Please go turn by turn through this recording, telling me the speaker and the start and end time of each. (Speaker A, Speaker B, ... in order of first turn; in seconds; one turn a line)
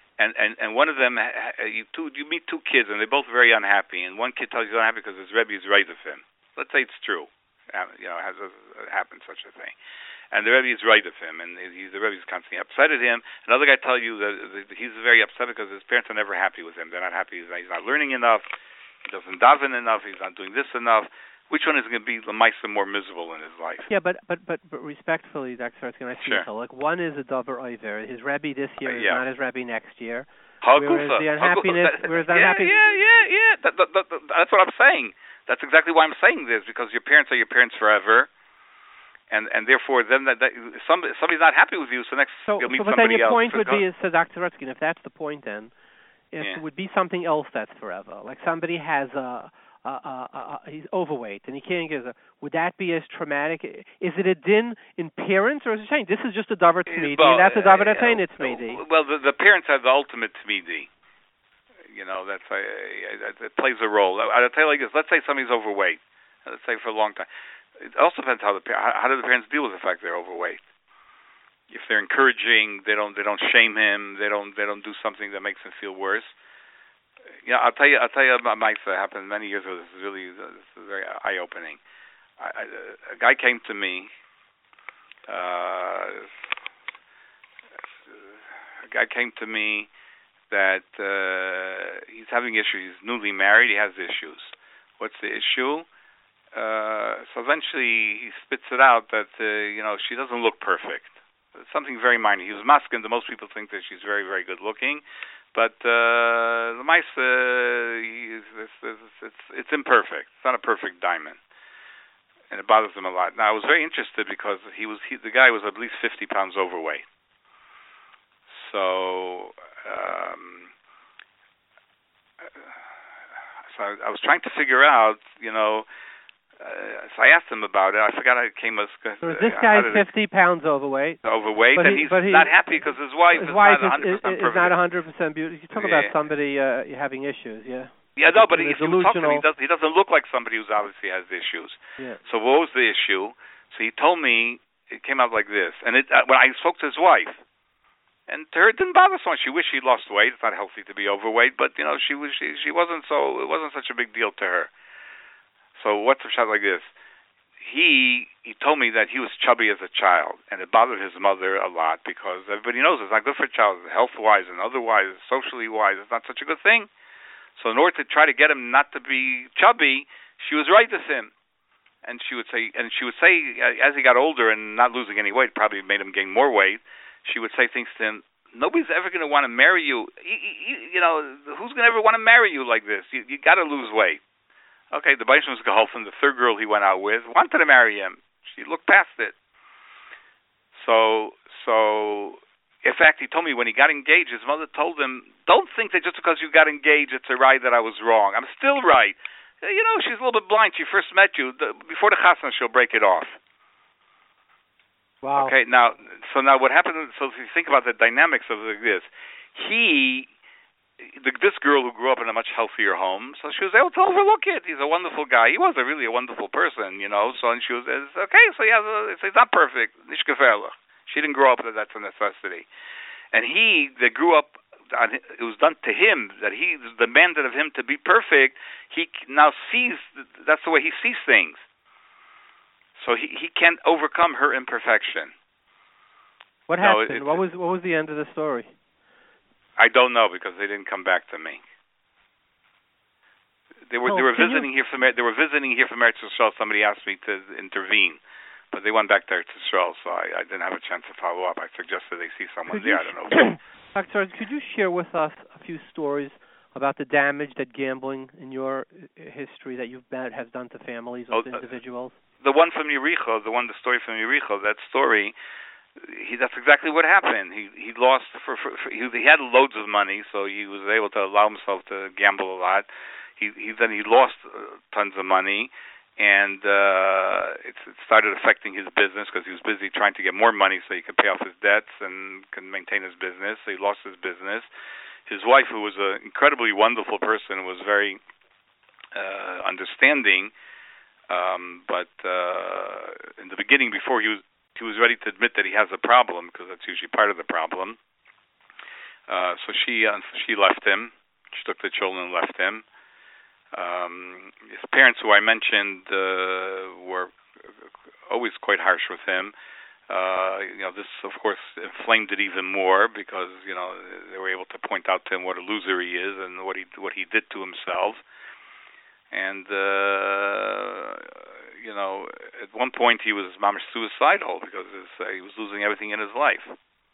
Speaker A: 0.2-9.8
Speaker A: 10.3-18.4
Speaker A: 19.0-23.9
Speaker B: 23.9-32.8
Speaker A: 28.9-29.2
Speaker A: 30.6-38.3
Speaker A: 39.3-43.8
Speaker B: 42.5-45.7
Speaker B: 46.3-58.8
Speaker A: 56.9-60.9
Speaker A: 61.9-67.3
Speaker A: 67.8-70.6
Speaker A: 71.7-76.3
Speaker A: 77.5-81.8
Speaker A: 82.4-84.1
Speaker A: 85.3-86.3
Speaker A: 88.1-89.9
Speaker A: 90.5-95.9
Speaker A: 96.5-105.0
Speaker A: 105.5-111.4
Speaker A: 112.5-117.0
Speaker A: 118.5-120.7
Speaker A: 122.4-122.7
Speaker A: 123.7-125.9
Speaker A: 126.6-130.1
Speaker B: 129.2-131.2
Speaker A: 131.2-134.8
Speaker B: 131.8-132.6
Speaker B: 133.3-139.4
Speaker A: 135.7-136.1
Speaker A: 138.2-147.4
Speaker A: 148.3-154.7
Speaker A: 155.8-156.9
Speaker A: 157.6-166.9
Speaker A: 167.6-171.3
Speaker A: 172.1-184.2
Speaker A: 184.9-189.3
Speaker A: 190.7-203.4
Speaker B: 205.2-205.5
Speaker A: 205.4-210.3
Speaker A: 211.0-222.7
Speaker A: 223.3-231.6
Speaker A: 233.0-235.3
Speaker B: 236.7-238.7
Speaker A: 236.8-237.4
Speaker A: 239.8-241.6
Speaker A: 243.9-248.2
Speaker B: 244.1-244.7
Speaker A: 248.7-253.5
Speaker B: 252.7-262.2
Speaker A: 261.3-261.6
Speaker A: 262.4-265.3
Speaker A: 266.0-272.9
Speaker A: 273.4-284.7
Speaker A: 285.3-288.2
Speaker A: 289.1-290.5
Speaker A: 291.3-298.0
Speaker A: 299.3-302.9
Speaker A: 303.7-309.5
Speaker A: 310.1-318.2
Speaker A: 319.3-326.8